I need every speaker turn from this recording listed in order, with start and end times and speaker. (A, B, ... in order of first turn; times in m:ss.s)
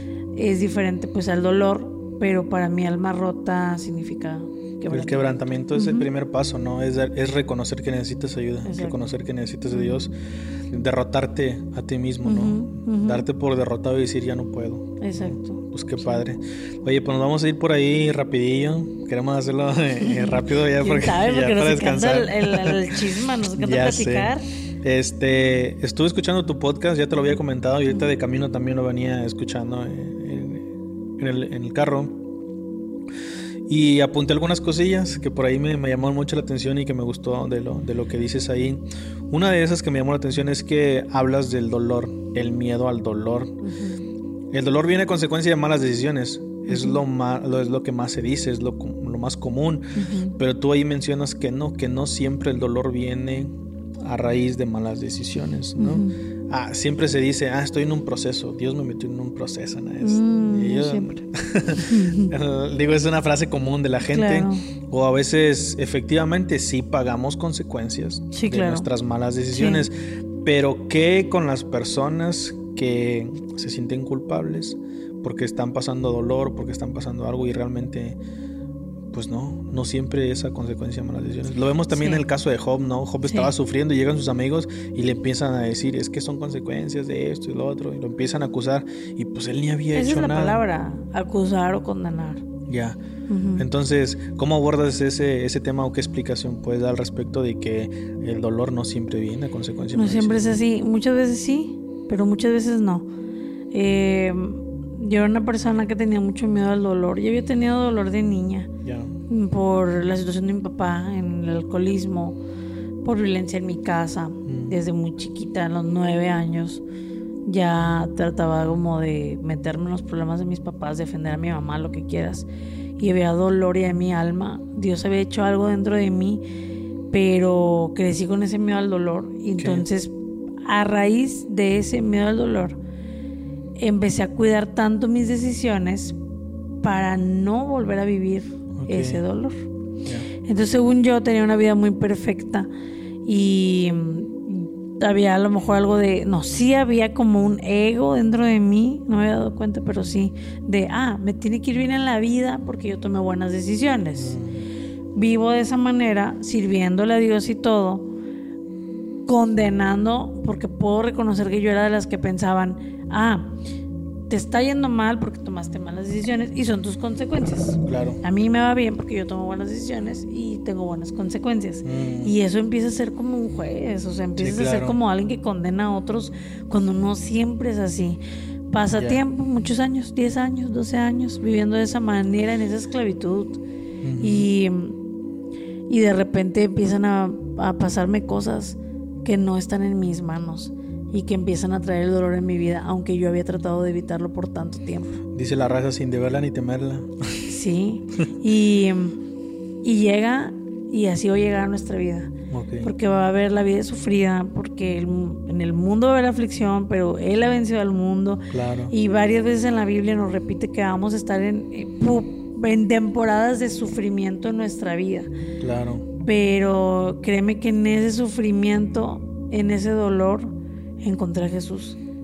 0:00.4-0:06.1 A
0:04.9-0:10.1 B
0:08.6-0:09.0 A
0:09.7-0:10.1 A
0:10.7-0:23.0 B
0:12.2-0:13.3 A
0:15.0-0:16.2 A
0:20.0-0:24.4 A
0:23.6-0:32.2 B
0:33.7-0:43.6 B
0:43.6-0:44.0 A
0:44.5-1:18.2 B
0:46.7-0:47.0 A
0:50.0-0:50.4 A
0:55.8-0:56.2 A
1:00.0-1:01.2 A
1:01.8-1:02.3 A
1:04.0-1:04.7 A
1:08.3-1:08.9 A
1:09.5-1:09.9 A
1:19.1-1:30.6 B
1:21.9-1:22.2 A
1:23.2-1:23.5 A
1:29.9-1:32.4 A
1:32.7-1:33.0 B
1:33.3-1:33.6 A
1:33.6-1:40.6 B
1:39.9-1:43.1 A
1:43.7-1:48.7 A
1:48.8-1:49.2 B
1:49.3-1:52.4 A
1:53.0-1:56.8 A
1:54.5-1:54.8 B
1:57.4-2:06.4 A
2:07.1-2:10.1 A
2:09.6-2:09.9 B
2:10.6-2:12.8 A
2:13.8-2:16.2 A
2:16.8-2:19.7 A
2:18.8-2:19.2 B
2:20.4-2:22.7 A
2:23.2-2:34.4 A
2:34.2-2:34.7 B
2:35.2-2:38.1 A
2:39.3-2:43.5 A
2:44.3-3:03.6 A
2:47.8-2:48.2 B
2:51.8-2:52.4 B
2:54.4-2:55.0 B
2:59.0-2:59.2 B
3:04.0-3:04.5 B
3:04.2-3:05.0 A
3:05.9-3:15.2 A
3:15.3-3:17.5 B
3:17.5-3:19.2 A
3:19.8-3:35.3 A
3:22.5-3:22.9 B
3:28.5-3:28.9 B
3:35.6-3:36.1 B
3:36.2-3:42.0 A